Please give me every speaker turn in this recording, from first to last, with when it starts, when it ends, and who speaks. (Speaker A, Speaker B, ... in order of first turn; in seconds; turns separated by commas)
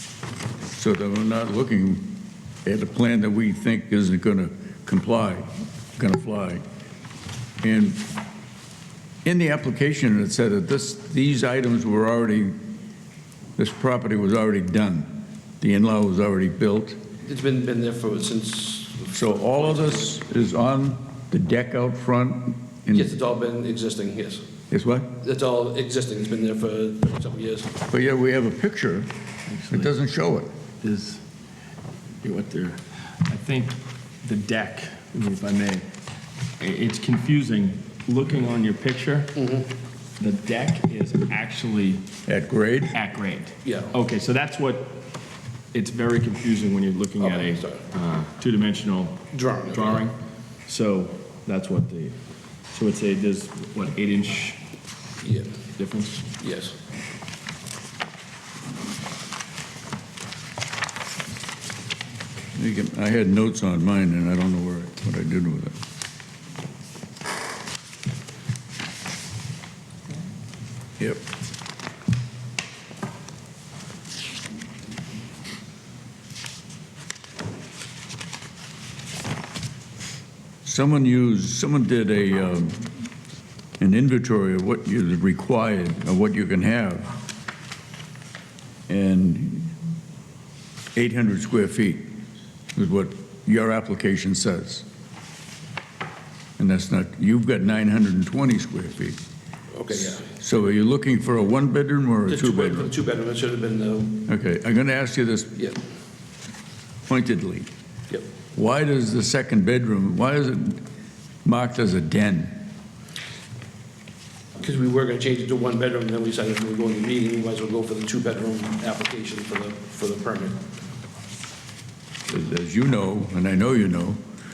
Speaker A: 0.7-6.7, Speaker A: 7.6-8.1, Speaker A: 9.2-12.6, Speaker A: 13.6-17.0, Speaker B: 17.2-20.2, Speaker A: 19.1-23.2, Speaker B: 22.9-24.4, Speaker A: 24.7-25.2, Speaker B: 25.2-27.7, Speaker A: 27.9-29.1, Speaker C: 29.5-29.9, Speaker A: 29.7-30.5, Speaker C: 30.8-31.2, Speaker C: 32.2-35.9, Speaker C: 36.6-39.4, Speaker B: 39.4-39.7, Speaker C: 40.2-42.0, Speaker A: 42.3-42.9, Speaker C: 42.9-45.0, Speaker B: 43.6-44.0, Speaker C: 45.7-50.1, Speaker B: 47.2-47.8, Speaker B: 49.3-50.1, Speaker C: 50.7-52.2, Speaker C: 52.7-54.6, Speaker B: 55.2-55.5, Speaker C: 55.8-56.3, Speaker B: 56.4-56.8, Speaker A: 62.5-65.8, Speaker A: 71.0-71.2, Speaker A: 80.7-82.9, Speaker A: 83.8-87.1, Speaker A: 88.9-89.7, Speaker A: 91.0-92.1, Speaker A: 92.8-94.9, Speaker A: 96.6-99.2, Speaker B: 99.7-100.8, Speaker A: 99.9-103.0, Speaker B: 102.3-104.2, Speaker A: 104.2-105.6, Speaker A: 107.1-107.7, Speaker A: 108.5-110.8, Speaker A: 111.5-112.7, Speaker B: 114.6-120.6, Speaker A: 122.3-124.2